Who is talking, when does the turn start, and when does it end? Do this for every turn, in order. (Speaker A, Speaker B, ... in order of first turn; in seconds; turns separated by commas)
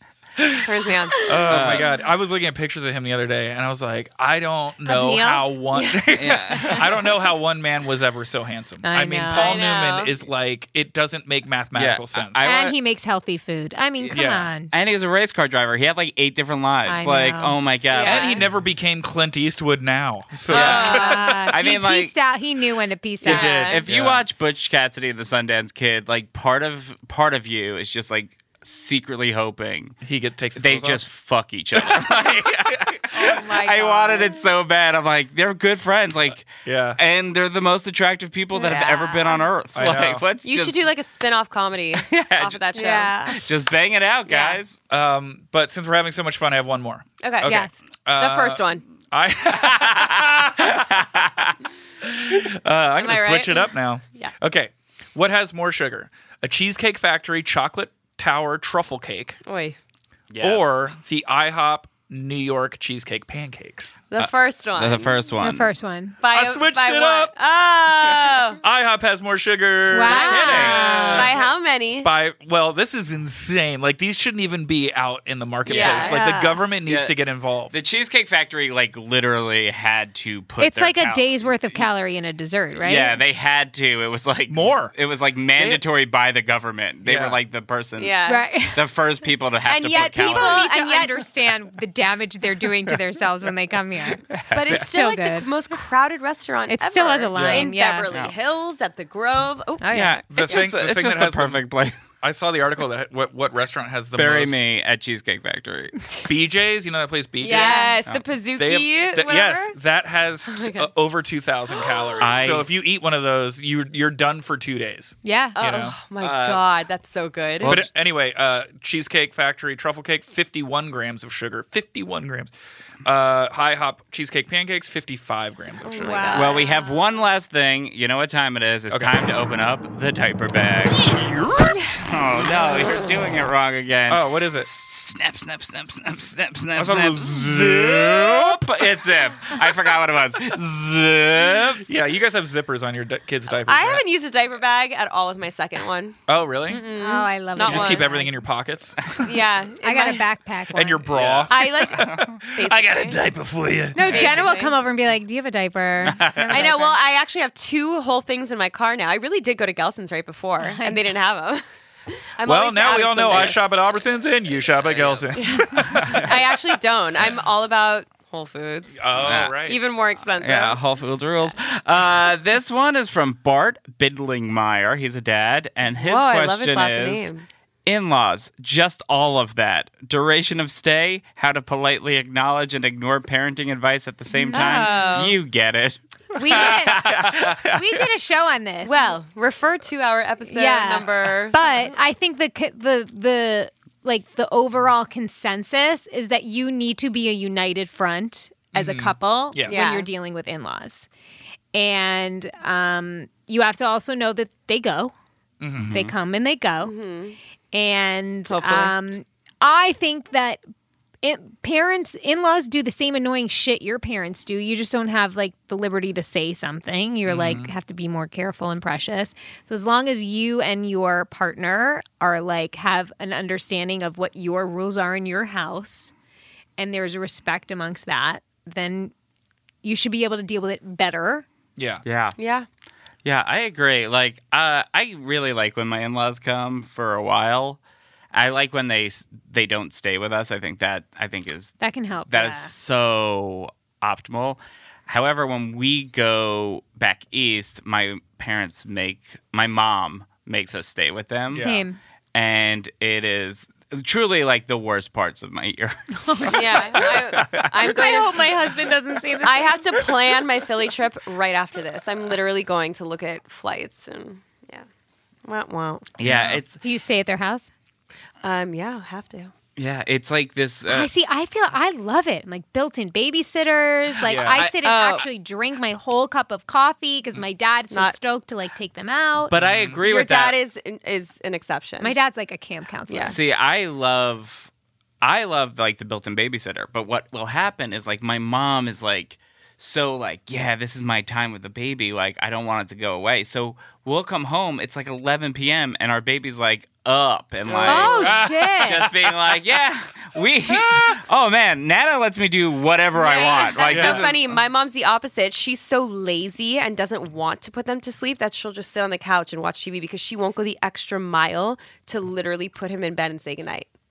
Speaker A: 0.4-0.7, Speaker B: 0.6-1.8, Speaker A: 1.2-12.5, Speaker C: 1.5-1.9, Speaker D: 4.8-5.5, Speaker B: 5.7-6.9, Speaker C: 6.2-7.0, Speaker D: 8.8-9.6, Speaker B: 9.3-10.1, Speaker C: 11.8-12.8, Speaker D: 12.4-14.7, Speaker A: 14.1-14.5, Speaker C: 14.7-18.4, Speaker D: 16.9-17.6, Speaker B: 17.9-18.4, Speaker A: 18.0-21.5, Speaker B: 20.5-21.4, Speaker D: 20.5-23.7, Speaker C: 20.7-22.1, Speaker B: 23.2-23.9, Speaker A: 23.2-24.2, Speaker C: 23.5-30.0, Speaker A: 30.0-31.1, Speaker C: 30.6-40.9, Speaker D: 33.1-34.5, Speaker A: 36.4-37.0, Speaker B: 38.5-38.9, Speaker D: 38.6-39.4, Speaker A: 39.8-40.2, Speaker B: 40.4-43.2, Speaker C: 42.0-42.6, Speaker D: 42.7-43.4, Speaker C: 43.3-44.8, Speaker B: 44.3-44.6, Speaker A: 44.9-50.9, Speaker B: 47.2-47.6, Speaker D: 47.5-47.7, Speaker B: 48.2-48.8, Speaker C: 49.5-51.6, Speaker A: 52.0-59.4, Speaker B: 53.0-54.3, Speaker B: 59.5-59.8, Speaker C: 60.3-60.8, Speaker A: 60.4-64.2, Speaker B: 64.1-65.2, Speaker C: 64.8-65.7, Speaker D: 65.4-66.2, Speaker B: 66.2-68.6, Speaker A: 66.3-67.3, Speaker A: 68.6-71.4, Speaker D: 69.9-71.3, Speaker C: 70.1-71.3, Speaker B: 71.1-72.1, Speaker A: 72.0-77.7, Speaker B: 75.7-76.2, Speaker C: 75.8-76.1, Speaker D: 75.8-76.7, Speaker C: 76.9-77.1, Speaker C: 77.7-81.5, Speaker D: 80.6-83.2, Speaker C: 82.8-88.2, Speaker A: 84.5-84.9, Speaker A: 85.6-85.8, Speaker A: 87.0-87.4, Speaker B: 88.0-88.5, Speaker D: 88.3-88.8, Speaker C: 88.7-90.7, Speaker B: 89.7-91.2, Speaker D: 90.2-95.5, Speaker C: 94.3-95.0, Speaker B: 94.5-100.7, Speaker D: 96.7-98.1, Speaker C: 97.3-98.3, Speaker D: 99.8-100.2, Speaker C: 99.9-102.0, Speaker A: 100.3-101.6, Speaker A: 102.2-104.7, Speaker C: 104.2-106.0, Speaker A: 106.3-107.9, Speaker B: 107.4-109.8, Speaker D: 107.4-108.0, Speaker A: 108.6-116.0, Speaker B: 110.5-110.9, Speaker B: 111.8-112.4, Speaker C: 112.2-112.7, Speaker D: 115.2-115.6, Speaker B: 115.6-117.8, Speaker C: 116.2-116.7, Speaker C: 117.6-117.9, Speaker A: 117.6-122.5, Speaker A: 123.0-126.2, Speaker B: 125.8-126.7, Speaker D: 126.0-126.8, Speaker C: 126.3-141.8, Speaker A: 131.0-131.8, Speaker A: 134.1-134.7, Speaker A: 136.8-138.8, Speaker A: 141.8-144.1, Speaker B: 143.7-148.1, Speaker A: 146.3-146.8, Speaker D: 146.9-148.3, Speaker A: 147.6-149.1, Speaker B: 149.2-150.2, Speaker D: 149.8-151.2, Speaker A: 150.7-154.5, Speaker C: 151.1-152.3, Speaker B: 151.5-153.2, Speaker D: 153.9-157.0, Speaker B: 154.0-154.7, Speaker C: 156.0-156.7, Speaker B: 156.5-163.6, Speaker D: 160.6-161.0, Speaker A: 162.4-166.5, Speaker C: 163.3-163.5, Speaker C: 164.8-166.2, Speaker B: 165.4-169.0, Speaker A: 169.0-169.8, Speaker C: 169.2-169.6, Speaker B: 169.6-170.8, Speaker C: 170.4-177.3, Speaker B: 176.0-177.4, Speaker C: 177.9-188.1, Speaker D: 184.3-185.3, Speaker B: 184.5-185.4, Speaker D: 186.3-189.2, Speaker B: 188.8-191.7, Speaker D: 190.5-201.1, Speaker A: 198.7-200.0, Speaker B: 199.7-200.1, Speaker D: 201.7-205.1, Speaker A: 205.6-206.0, Speaker C: 205.8-206.1, Speaker D: 205.9-206.9, Speaker B: 206.8-207.4, Speaker D: 207.7-210.6, Speaker B: 208.5-208.9, Speaker D: 211.2-226.1, Speaker A: 217.3-217.7, Speaker D: 226.8-229.1, Speaker D: 229.8-231.4, Speaker A: 231.8-232.0, Speaker C: 232.1-232.3, Speaker B: 232.4-232.7, Speaker C: 233.2-237.8, Speaker C: 238.3-251.7, Speaker D: 241.8-242.7, Speaker A: 251.5-251.9, Speaker D: 251.5-252.0, Speaker C: 252.3-258.0, Speaker D: 256.2-257.0, Speaker B: 256.5-258.5, Speaker D: 257.8-259.9, Speaker B: 259.4-264.9, Speaker B: 265.4-266.1, Speaker C: 266.2-266.8, Speaker A: 266.2-266.6, Speaker D: 266.8-267.7, Speaker B: 268.4-269.5, Speaker C: 269.8-271.1, Speaker D: 270.9-279.5, Speaker A: 274.2-274.7, Speaker B: 274.6-275.3, Speaker B: 277.9-278.2, Speaker C: 279.5-280.6, Speaker A: 279.6-280.0, Speaker B: 280.0-282.1, Speaker D: 282.0-283.4, Speaker B: 283.1-283.4, Speaker C: 283.2-284.7, Speaker C: 285.2-304.6, Speaker B: 297.7-298.4, Speaker D: 297.9-299.1, Speaker A: 298.2-299.2, Speaker A: 300.7-301.2, Speaker B: 303.1-313.9, Speaker A: 303.9-304.3